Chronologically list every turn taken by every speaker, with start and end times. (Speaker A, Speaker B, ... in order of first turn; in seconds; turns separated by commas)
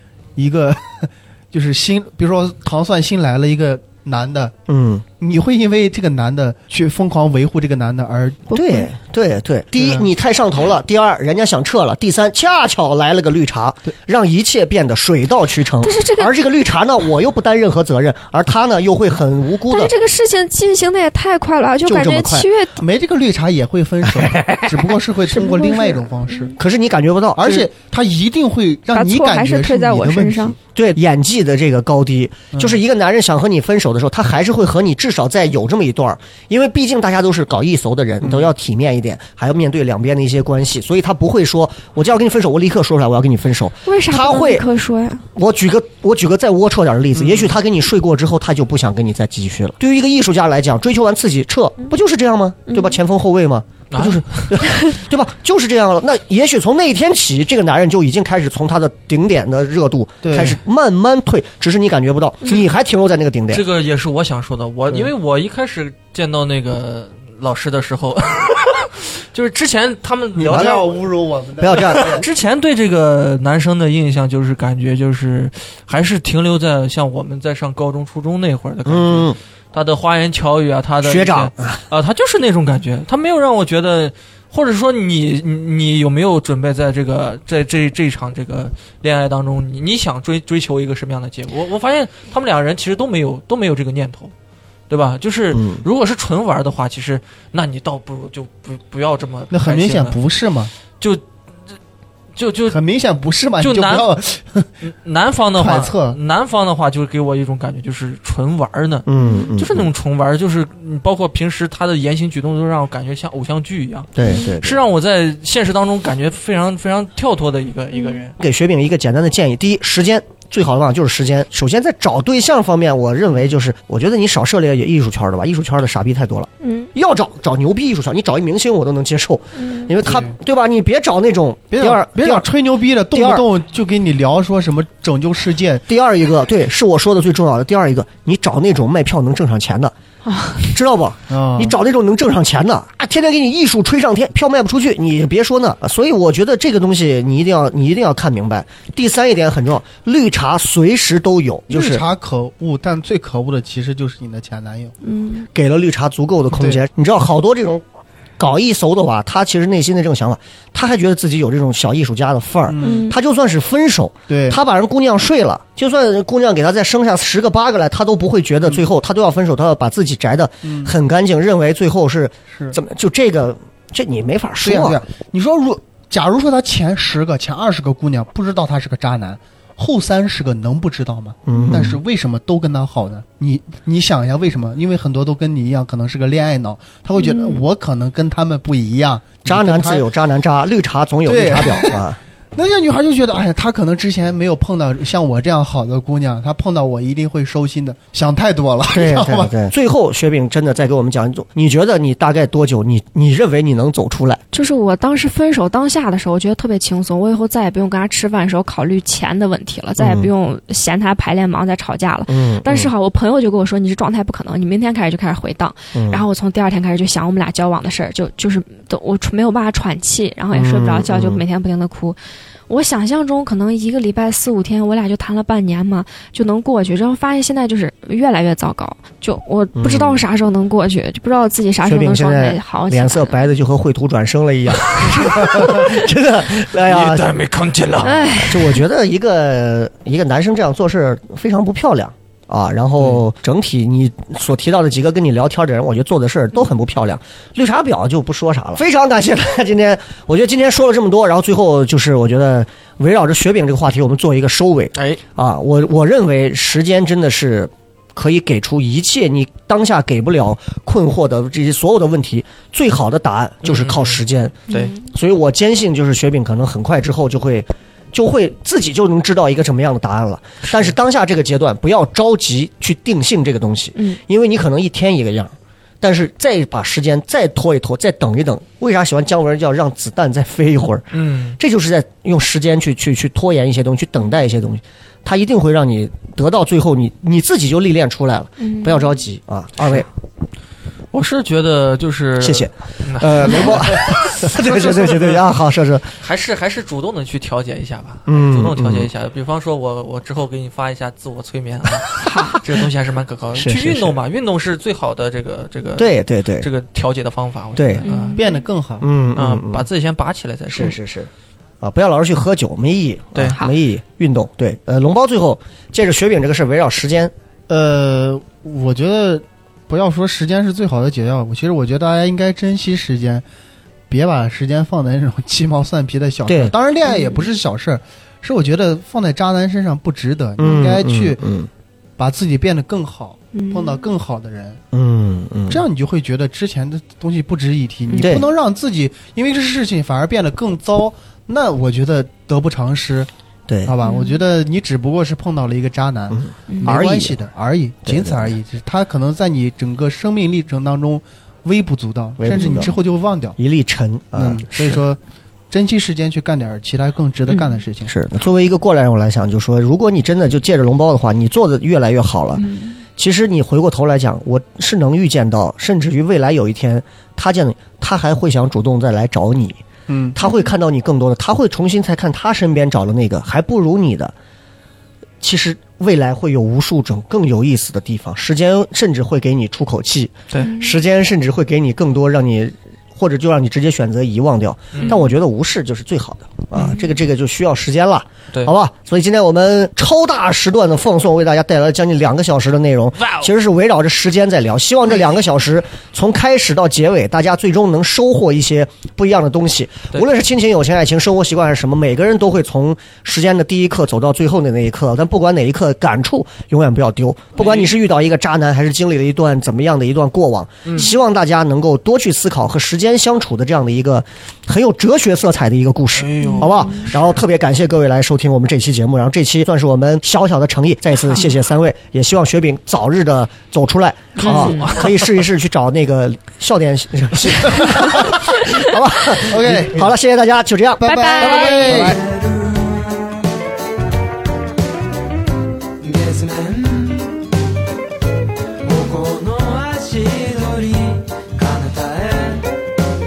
Speaker A: 0.4-4.5, Speaker B: 4.7-5.0, Speaker A: 5.2-8.5, Speaker C: 8.5-8.9, Speaker B: 8.5-19.9, Speaker A: 9.8-10.1, Speaker C: 15.8-16.3, Speaker C: 19.7-22.8, Speaker B: 21.9-22.5, Speaker A: 22.8-26.6, Speaker B: 24.2-24.6, Speaker C: 25.4-26.6, Speaker B: 26.6-27.7, Speaker A: 27.4-30.6, Speaker C: 28.9-30.6, Speaker B: 30.8-44.7, Speaker A: 32.5-32.8, Speaker C: 43.9-45.2, Speaker B: 45.4-63.6, Speaker D: 47.2-47.5, Speaker C: 52.7-53.0, Speaker D: 53.9-54.5, Speaker A: 60.2-60.6, Speaker D: 63.5-71.0, Speaker A: 70.3-72.3, Speaker B: 70.5-70.8, Speaker B: 71.6-72.1, Speaker D: 71.7-94.3, Speaker B: 78.8-79.4, Speaker B: 81.0-81.8, Speaker D: 94.9-100.2, Speaker B: 95.5-95.8, Speaker A: 99.5-100.7, Speaker D: 102.4-102.8, Speaker A: 102.7-104.7, Speaker D: 103.6-104.1, Speaker D: 104.8-118.3, Speaker A: 105.6-106.2, Speaker B: 109.1-109.9, Speaker B: 114.2-114.8, Speaker C: 114.2-114.5, Speaker C: 117.9-118.2, Speaker B: 118.4-132.5, Speaker C: 126.6-126.9, Speaker C: 129.6-129.9, Speaker A: 130.0-130.3, Speaker A: 131.7-135.8, Speaker B: 133.1-133.4, Speaker B: 135.9-139.9, Speaker C: 140.2-140.7, Speaker B: 140.7-152.0, Speaker A: 141.3-141.8, Speaker A: 151.7-154.9, Speaker C: 155.0-155.5, Speaker B: 155.5-157.8, Speaker A: 156.5-156.8, Speaker B: 158.4-175.0, Speaker A: 162.7-163.1, Speaker C: 162.8-163.2, Speaker A: 164.3-164.6, Speaker A: 170.6-170.9, Speaker A: 172.5-172.8, Speaker A: 174.6-190.1, Speaker B: 181.5-182.0, Speaker C: 187.2-187.6, Speaker B: 189.5-192.2, Speaker A: 191.2-192.0, Speaker A: 192.6-199.6, Speaker B: 198.9-204.4, Speaker C: 204.5-222.2, Speaker B: 210.0-210.3, Speaker B: 212.3-212.9, Speaker B: 215.9-216.2, Speaker B: 220.5-221.4, Speaker C: 222.7-233.4, Speaker B: 229.8-230.3, Speaker B: 231.8-237.4, Speaker D: 234.9-235.9, Speaker D: 236.7-238.4, Speaker B: 238.0-290.1, Speaker C: 238.0-238.8, Speaker D: 263.6-264.9, Speaker C: 264.7-265.1, Speaker D: 281.1-281.6, Speaker C: 288.6-289.1, Speaker D: 291.1-295.4, Speaker B: 292.4-296.1, Speaker D: 296.2-308.4, Speaker B: 298.3-299.1, Speaker C: 302.2-302.6, Speaker B: 303.6-304.2, Speaker B: 306.0-306.7, Speaker B: 307.8-308.1, Speaker C: 308.1-308.6, Speaker A: 308.3-309.1, Speaker B: 309.0-309.9, Speaker D: 309.4-311.0, Speaker B: 310.7-311.3, Speaker B: 311.8-317.3, Speaker A: 317.7-323.4, Speaker A: 324.1-331.4, Speaker B: 326.5-326.7, Speaker C: 327.1-327.5, Speaker B: 330.6-331.7, Speaker A: 332.2-334.8, Speaker C: 333.5-334.0, Speaker B: 334.9-335.8, Speaker A: 335.7-343.3, Speaker C: 338.1-338.4, Speaker B: 338.2-338.4, Speaker B: 343.7-343.9, Speaker A: 343.9-353.6, Speaker C: 344.0-344.4, Speaker B: 346.3-347.4, Speaker C: 346.7-347.0, Speaker B: 348.1-348.6, Speaker B: 352.4-352.9, Speaker C: 352.6-352.9, Speaker B: 353.6-354.7, Speaker A: 354.3-355.2, Speaker A: 355.7-358.1, Speaker C: 357.5-357.8, Speaker B: 358.1-362.6, Speaker C: 362.6-363.0, Speaker B: 363.2-369.8, Speaker A: 370.1-370.4, Speaker B: 370.4-374.3, Speaker C: 370.4-370.7, Speaker B: 375.4-432.0, Speaker C: 380.6-381.0, Speaker D: 384.9-385.2, Speaker C: 386.8-387.0, Speaker D: 393.2-393.5, Speaker D: 407.6-407.9, Speaker D: 410.9-411.1, Speaker D: 416.2-417.0, Speaker C: 416.4-417.1, Speaker D: 424.4-425.3, Speaker C: 424.4-425.0, Speaker A: 429.4-430.1, Speaker A: 431.0-432.2, Speaker C: 431.1-432.1, Speaker E: 432.1-433.5, Speaker E: 436.0-437.4, Speaker E: 438.8-442.7